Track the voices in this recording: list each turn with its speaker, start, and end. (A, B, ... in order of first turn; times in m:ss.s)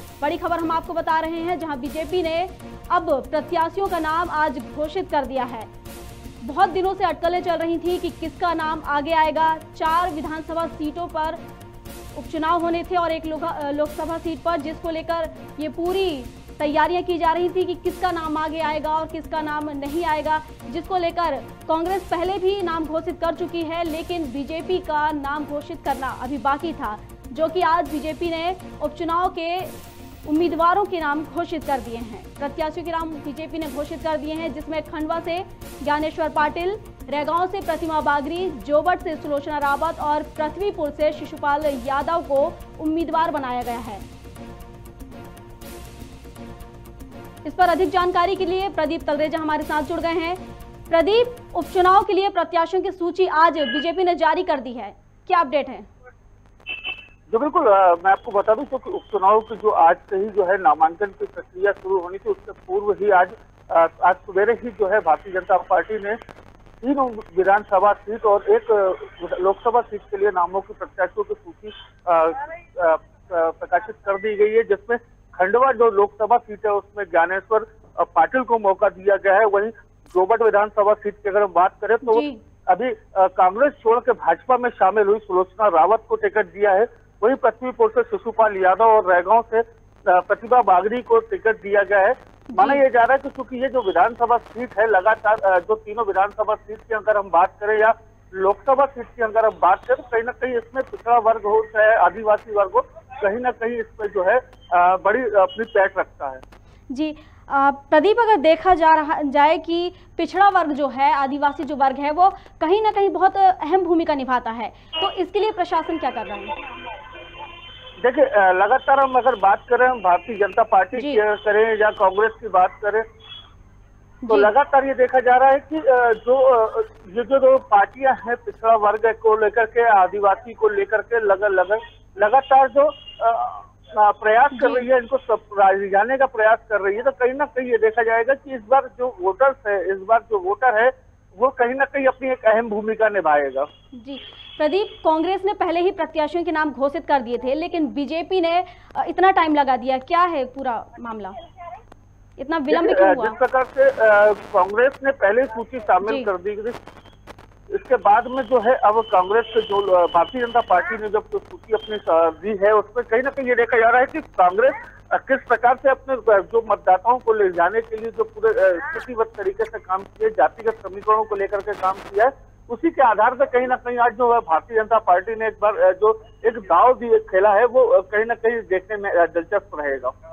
0:00.2-0:05.7 A
0:06.4-0:11.4 A
0:12.2-0:29.7 A
0:30.3-0:44.0 A
0:47.4-0:55.9 A
0:57.3-1:06.2 B
1:06.8-1:46.4 B
1:22.0-1:22.4 A
1:32.5-1:32.8 A
1:46.9-1:56.6 A
1:58.0-2:03.0 B
2:01.0-2:01.2 A
2:04.2-2:04.5 A
2:04.3-2:23.7 B
2:14.5-2:14.8 A
2:23.9-2:31.4 A
2:32.4-2:33.4 A
2:32.7-2:36.8 B
2:36.0-2:36.3 A
2:37.7-3:00.1 B